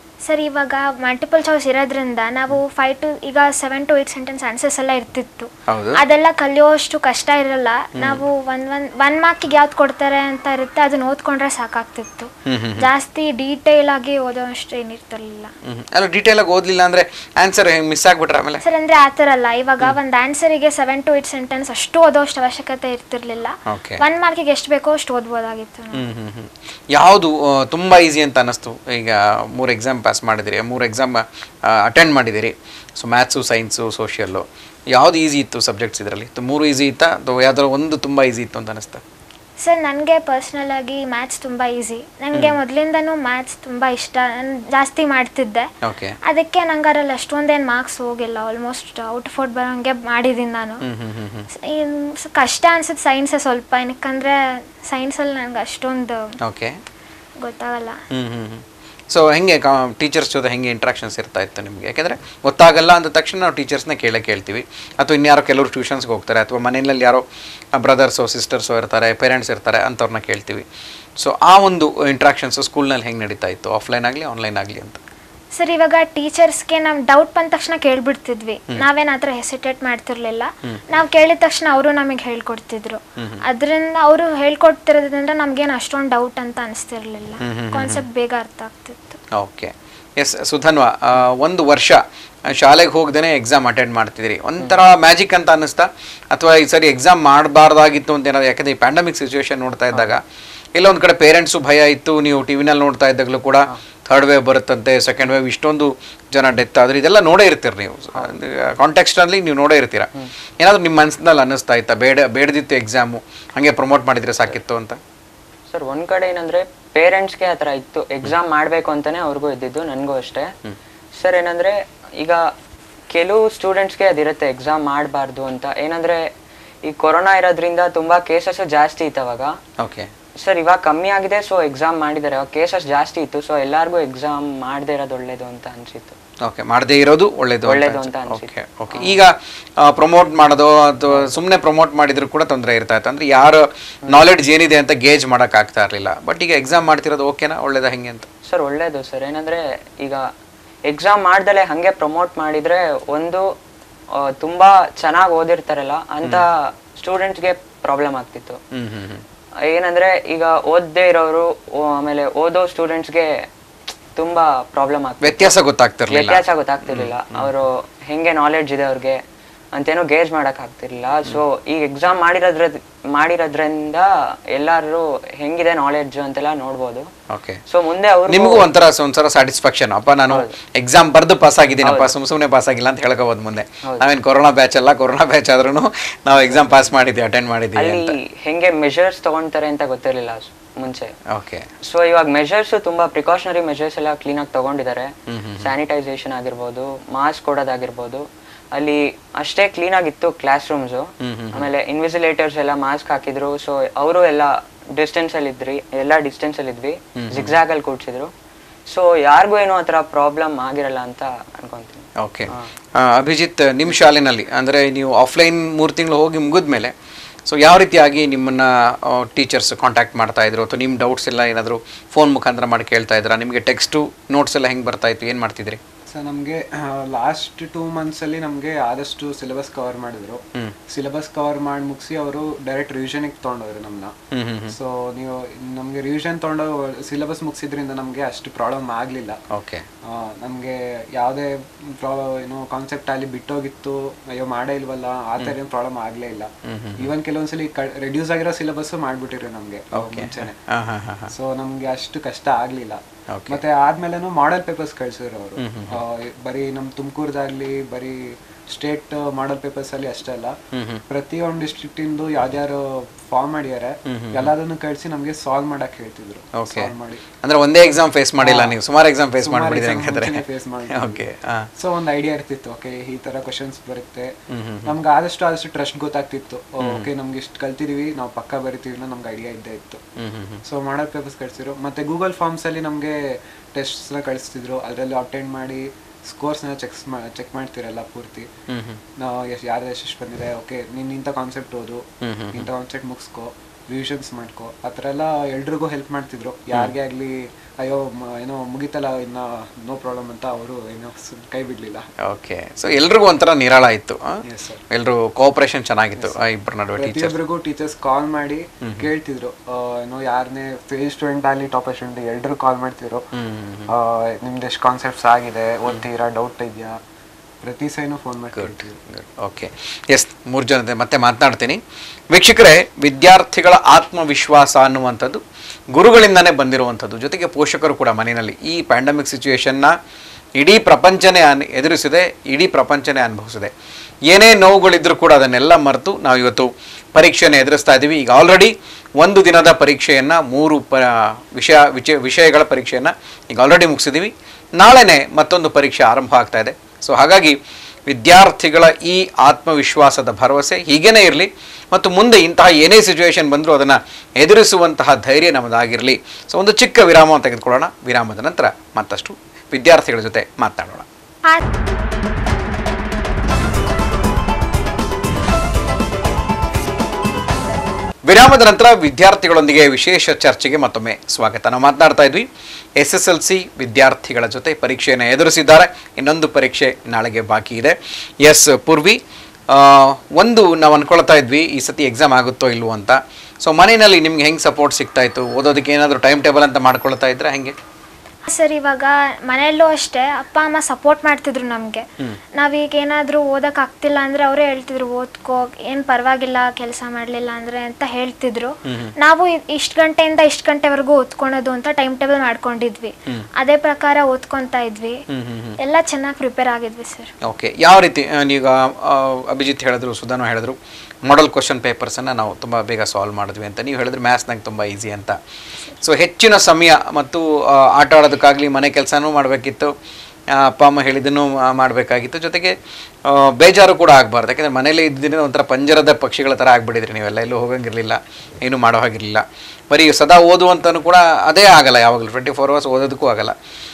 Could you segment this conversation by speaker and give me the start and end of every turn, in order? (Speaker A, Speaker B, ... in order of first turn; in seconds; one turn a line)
Speaker A: 0.3-15.5
Speaker B: 5.7-6.0
Speaker B: 8.0-8.2
Speaker B: 12.4-12.9
Speaker B: 15.6-18.6
Speaker A: 18.6-26.0
Speaker B: 23.7-24.0
Speaker B: 25.9-39.0
Speaker A: 39.6-45.7
Speaker B: 42.3-42.6
Speaker B: 45.8-46.2
Speaker A: 46.2-50.8
Speaker B: 50.8-51.5
Speaker A: 51.5-56.3
Speaker B: 56.4-56.8
Speaker A: 57.4-58.0
Speaker B: 58.1-67.2
Speaker B: 67.7-70.7
Speaker B: 71.2-75.0
Speaker A: 75.5-89.2
Speaker B: 83.2-83.4
Speaker B: 87.4-88.0
Speaker B: 89.3-100.2
Speaker B: 100.7-115.0
Speaker C: 115.7-120.5
Speaker C: 121.2-122.5
Speaker C: 123.1-126.2
Speaker C: 126.8-129.6
Speaker B: 129.8-130.1
Speaker C: 130.4-136.2
Speaker B: 136.4-148.3
Speaker C: 137.6-139.2
Speaker C: 141.1-141.4
Speaker C: 148.5-150.3
Speaker C: 150.9-153.5
Speaker C: 154.1-158.6
Speaker B: 158.7-159.2
Speaker C: 159.6-163.4
Speaker C: 164.2-165.5
Speaker B: 165.2-167.5
Speaker C: 166.1-169.2
Speaker C: 169.7-177.1
Speaker B: 177.3-177.6
Speaker C: 177.7-178.6
Speaker B: 178.3-188.2
Speaker C: 180.3-180.6
Speaker C: 181.8-182.1
Speaker C: 186.3-186.9
Speaker C: 187.8-191.1
Speaker B: 191.3-191.7
Speaker C: 191.8-208.3
Speaker B: 195.3-195.7
Speaker B: 201.2-201.7
Speaker B: 207.2-207.6
Speaker C: 208.9-212.7
Speaker B: 212.2-216.9
Speaker B: 217.4-225.8
Speaker D: 226.1-234.1
Speaker B: 234.3-234.8
Speaker D: 234.7-239.4
Speaker B: 239.5-239.8
Speaker D: 240.0-250.5
Speaker B: 246.6-247.1
Speaker B: 249.9-251.3
Speaker D: 251.3-260.6
Speaker B: 253.3-253.6
Speaker B: 255.6-256.0
Speaker B: 260.7-261.0
Speaker D: 261.1-267.2
Speaker B: 264.1-264.5
Speaker B: 266.6-271.7
Speaker D: 268.4-268.8
Speaker D: 269.4-271.2
Speaker D: 271.8-274.3
Speaker B: 274.5-274.9
Speaker D: 274.8-280.0
Speaker B: 276.8-277.1
Speaker B: 280.2-280.6
Speaker D: 280.6-288.5
Speaker B: 288.7-289.0
Speaker D: 289.1-302.1
Speaker B: 292.2-292.7
Speaker B: 302.2-307.4
Speaker D: 304.4-304.8
Speaker D: 307.0-313.3
Speaker B: 308.8-309.1
Speaker B: 313.3-313.9
Speaker D: 313.9-317.0
Speaker D: 317.6-319.0
Speaker B: 318.6-321.8
Speaker B: 322.3-329.9
Speaker B: 330.6-333.7
Speaker B: 334.3-361.1
Speaker B: 368.2-387.8
Speaker A: 388.5-392.1
Speaker A: 392.6-405.2
Speaker B: 398.9-399.1
Speaker B: 405.3-405.8
Speaker A: 405.8-407.3
Speaker B: 407.4-415.4
Speaker B: 416.0-419.9
Speaker B: 420.5-433.5